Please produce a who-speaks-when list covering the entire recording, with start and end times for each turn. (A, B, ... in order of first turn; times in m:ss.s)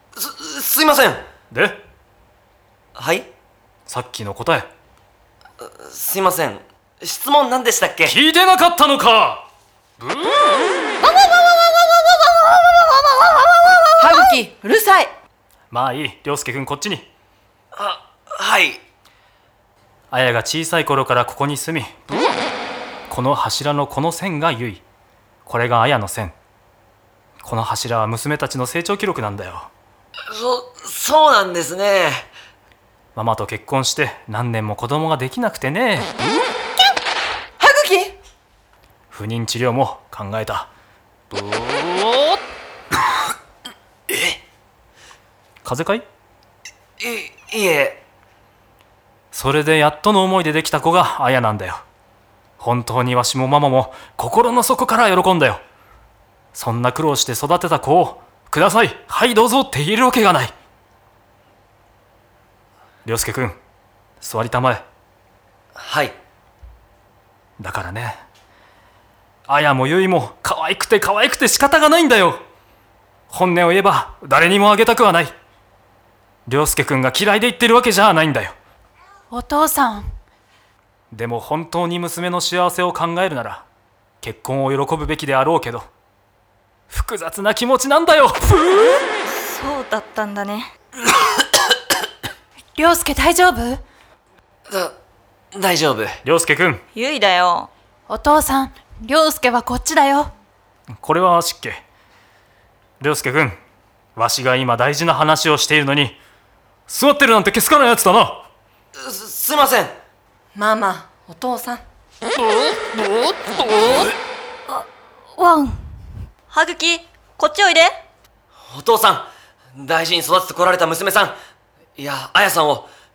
0:00.2-0:01.2 A
0:01.5-0:01.8 B
0:03.0-0:03.3 A
0:03.9-0:04.7 B
0:05.6-0:08.2 A
0:08.0-0:09.4 B
0:14.0-0:15.1 C
0:15.7-0:17.1 B
0:17.8-0:18.8 A
0:20.1-0:22.0 B
0:23.1-0:24.8 B
0:25.5-0:26.3 B
0:27.4-0:29.7 B
0:30.3-0:32.3 A
0:33.2-0:36.1 B
0:37.6-0:38.2 C
0:39.1-0:40.7 B
0:44.1-0:44.4 A
0:45.6-0:46.0 B
0:47.0-0:48.0 A
0:49.3-0:51.8 B
0:52.6-0:55.6 B
0:56.5-1:00.5 B
1:03.0-1:03.6 B
1:04.2-1:04.8 B
1:05.8-1:06.2 A
1:07.6-1:08.2 B
1:09.5-1:12.4 B
1:13.3-1:15.3 B
1:16.5-1:18.5 B
1:19.3-1:20.2 D
1:21.1-1:23.6 B
1:24.2-1:25.9 B
1:26.9-1:29.0 B
1:29.5-1:30.7 E
1:32.8-1:33.8 D
1:34.7-1:34.9 A
1:35.5-1:36.2 A
1:36.2-1:36.8 B
1:37.0-1:37.7 E
1:38.1-1:40.3 D
1:41.0-1:41.8 B
1:43.0-1:43.6 B
1:44.2-1:46.2 B
1:46.9-1:48.4 B
1:49.0-1:49.9 A
1:50.5-1:51.8 C
1:55.4-1:55.8 E
1:56.5-1:58.0 E
1:58.7-2:01.4 A
2:02.0-2:02.9 A